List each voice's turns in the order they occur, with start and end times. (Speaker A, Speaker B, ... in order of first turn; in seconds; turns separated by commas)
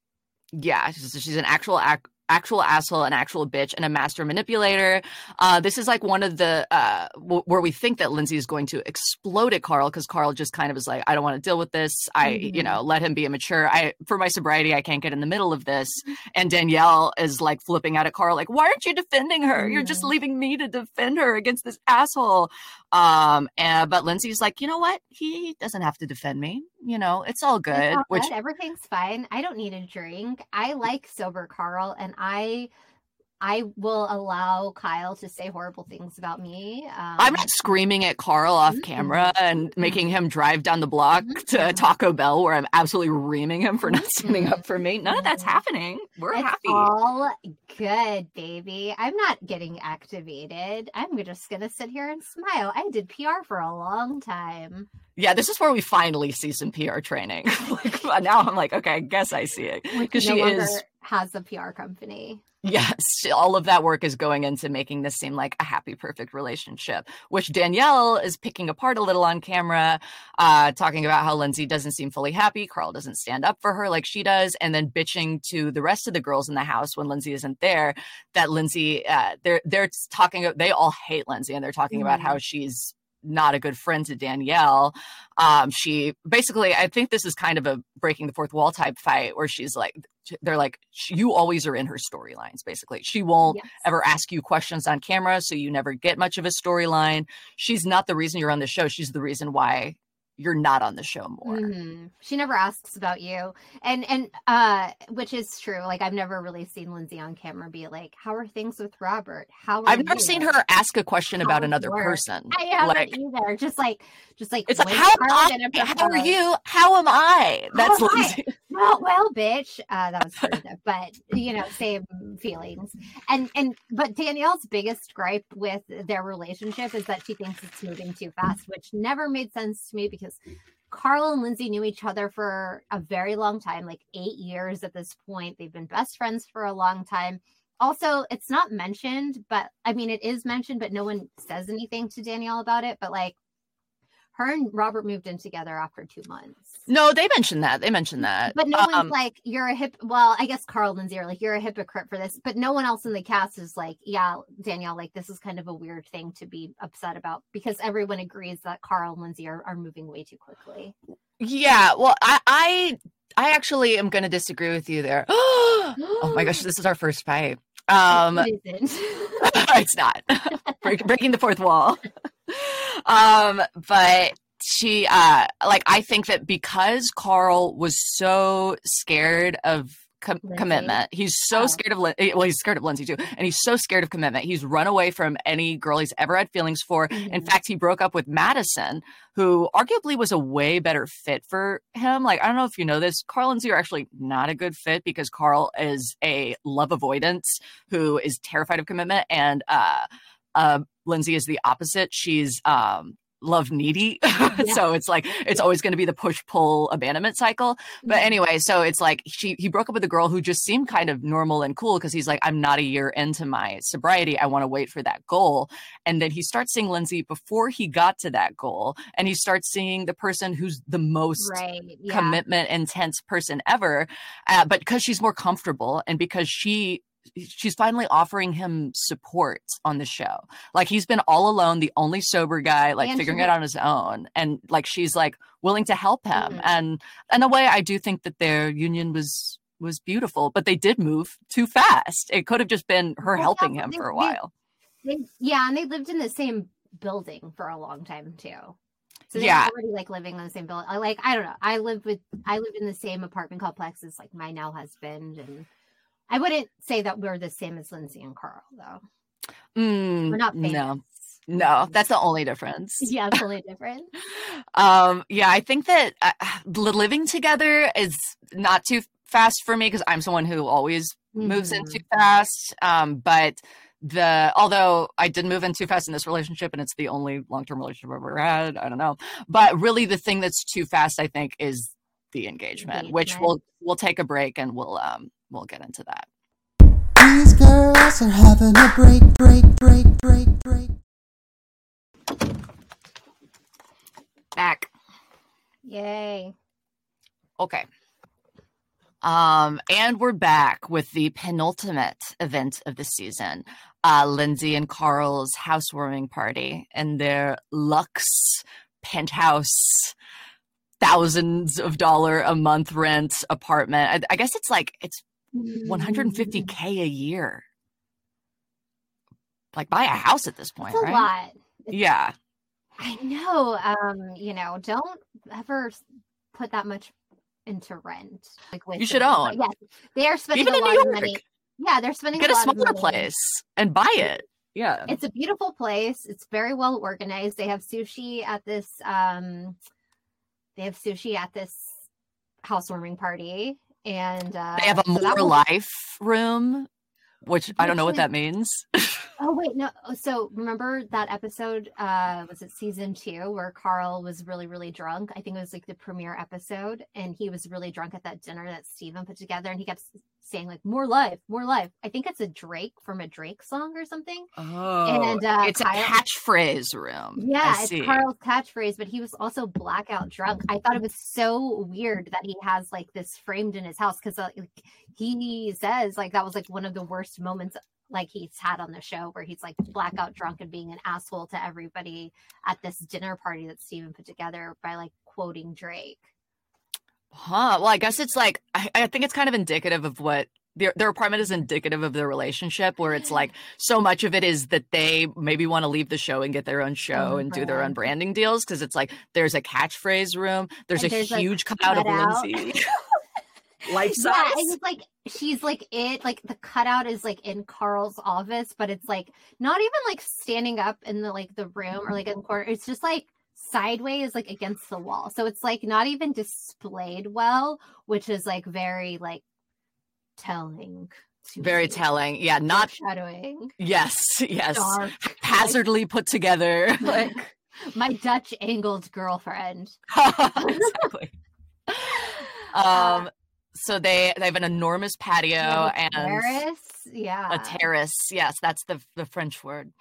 Speaker A: 0.5-28.3, Speaker B: 12.2-12.8, Speaker B: 19.6-20.1, Speaker B: 27.7-32.7, Speaker B: 33.4-37.5, Speaker A: 37.2-46.9, Speaker B: 38.7-40.0, Speaker B: 41.2-41.8, Speaker B: 43.8-45.6, Speaker B: 46.3-54.9, Speaker A: 55.2-60.8, Speaker B: 59.9-62.4, Speaker A: 62.6-101.7, Speaker B: 81.9-82.4, Speaker B: 93.5-93.7, Speaker B: 101.4-110.5, Speaker A: 109.9-113.1, Speaker B: 111.4-116.3, Speaker A: 114.7-118.5, Speaker B: 117.7-130.4, Speaker B: 130.9-143.3, Speaker B: 144.3-146.8, Speaker A: 146.9-149.1, Speaker B: 148.5-160.9, Speaker A: 161.4-168.5, Speaker B: 166.0-166.6, Speaker B: 168.1-169.6, Speaker A: 169.4-244.5, Speaker B: 180.4-180.9, Speaker B: 181.5-181.8, Speaker B: 187.1-187.5, Speaker B: 221.4-222.4, Speaker B: 233.0-233.5, Speaker B: 236.3-236.6, Speaker B: 243.2-244.4, Speaker B: 245.0-248.8, Speaker B: 249.3-255.7, Speaker A: 249.3-249.7, Speaker B: 256.3-259.0, Speaker A: 259.8-263.1, Speaker B: 260.3-261.9, Speaker B: 263.0-264.1, Speaker A: 264.4-286.3, Speaker B: 271.4-272.0, Speaker B: 282.8-283.5, Speaker C: 287.1-291.0, Speaker A: 294.6-294.9, Speaker B: 295.8-296.5, Speaker A: 297.6-297.9, Speaker A: 299.2-310.1, Speaker A: 311.0-315.2, Speaker B: 315.5-316.7, Speaker A: 315.8-317.6, Speaker A: 319.7-321.3, Speaker B: 320.9-321.9, Speaker A: 321.9-322.4, Speaker B: 323.0-326.0, Speaker B: 326.5-327.1, Speaker B: 327.6-333.3, Speaker A: 329.0-329.6, Speaker A: 330.5-331.4, Speaker A: 332.4-335.1, Speaker B: 335.1-339.8, Speaker B: 340.8-342.0, Speaker B: 342.6-345.6, Speaker A: 344.8-346.9, Speaker A: 347.4-349.2, Speaker B: 347.8-348.2, Speaker B: 349.4-364.5, Speaker A: 364.6-368.2, Speaker B: 365.1-366.2, Speaker B: 367.4-386.2, Speaker A: 387.3-402.9, Speaker B: 397.1-397.9, Speaker B: 400.9-402.5, Speaker B: 403.9-419.4, Speaker A: 403.9-404.7, Speaker B: 420.4-422.0, Speaker A: 421.6-422.9, Speaker B: 422.7-423.7, Speaker A: 423.8-427.5, Speaker B: 424.7-425.8, Speaker B: 427.9-430.0, Speaker A: 430.1-431.3, Speaker B: 430.6-431.1, Speaker A: 431.9-436.6, Speaker B: 432.9-433.3, Speaker B: 435.6-437.8, Speaker A: 437.5-439.9